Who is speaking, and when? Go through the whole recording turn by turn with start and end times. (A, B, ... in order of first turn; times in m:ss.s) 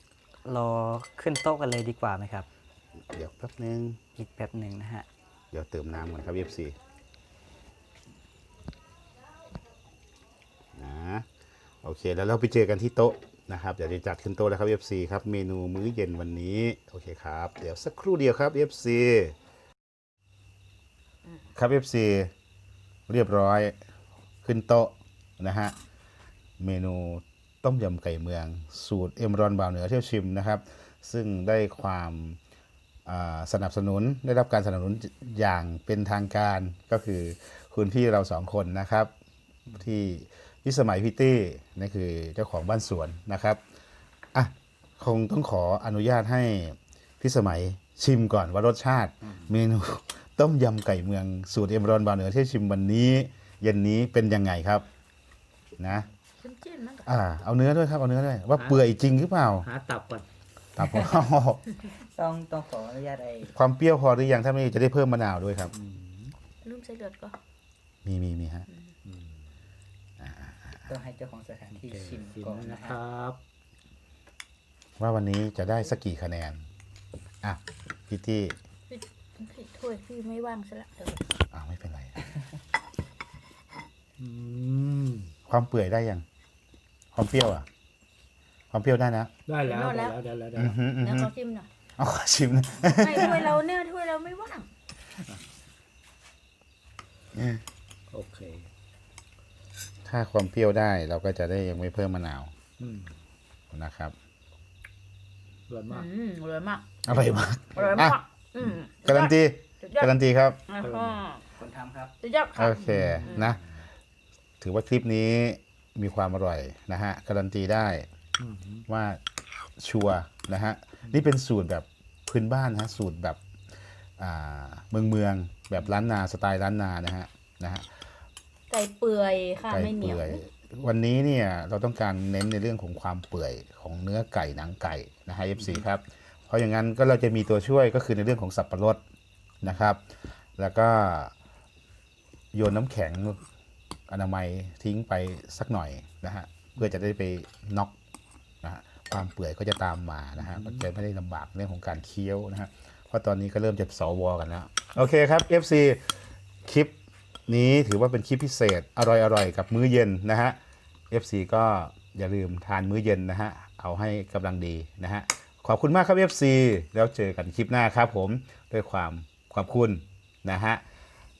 0:00.4-0:02.5 A
0:03.1-0:04.0 B
0:04.2-0:05.1 A
0:05.5-0:06.8 B
0:10.7-0:11.3 B
0:11.8-0:19.3 B
0:21.5-0:22.3 B
0:23.1-0:23.8 B
0:24.4-0:25.8 B
0:26.6-0:32.4 B
0:33.0-0:39.1 B
0:39.7-0:43.6 B
0:44.3-0:54.8 B
0:55.8-0:56.1 B
0:56.4-0:57.1 C
0:57.0-0:59.7 B
0:58.6-0:59.0 D
0:59.6-1:00.3 D
1:00.8-1:01.6 B
1:00.8-1:01.2 D
1:01.8-1:03.6 A
1:03.5-1:05.7 B
1:05.7-1:06.3 D
1:06.6-1:07.4 C
1:08.0-1:08.7 B
1:09.0-1:09.4 D
1:10.2-1:10.8 B
1:10.9-1:13.0 A
1:11.8-1:13.4 D
1:15.0-1:16.6 B
1:17.4-1:18.6 B
1:18.9-1:21.2 C
1:21.5-1:22.2 B
1:24.2-1:25.3 D
1:25.5-1:26.2 B
1:27.1-1:27.7 B
1:28.7-1:29.3 B
1:29.5-1:30.8 D
1:29.6-1:30.2 C
1:30.6-1:31.3 B
1:31.0-1:31.7 C
1:32.0-1:33.6 B
1:32.8-1:34.7 C
1:37.3-1:37.6 B
1:38.1-1:38.7 D
1:40.0-1:42.5 B
1:42.8-1:43.1 D
1:43.7-1:44.1 B
1:45.7-1:46.1 D
1:45.9-1:47.1 C
1:47.0-1:48.2 B
1:47.7-1:48.1 D
1:47.7-1:50.1 C
1:49.0-1:50.6 B
1:50.7-1:51.4 C
1:50.8-1:51.2 D
1:51.6-1:52.1 A
1:52.2-1:53.6 C
1:52.5-1:53.6 B
1:52.8-1:53.7 D
1:54.6-1:58.1 B
1:58.4-1:58.8 D
1:58.9-1:59.2 B
1:59.8-2:03.4 B
2:04.2-2:08.0 B
2:08.7-2:10.4 C
2:09.7-2:19.0 B
2:19.6-2:21.3 B
2:22.5-2:23.4 B
2:24.1-2:28.0 B
2:28.6-2:40.6 B
2:30.4-2:30.8 D
2:41.1-2:50.8 B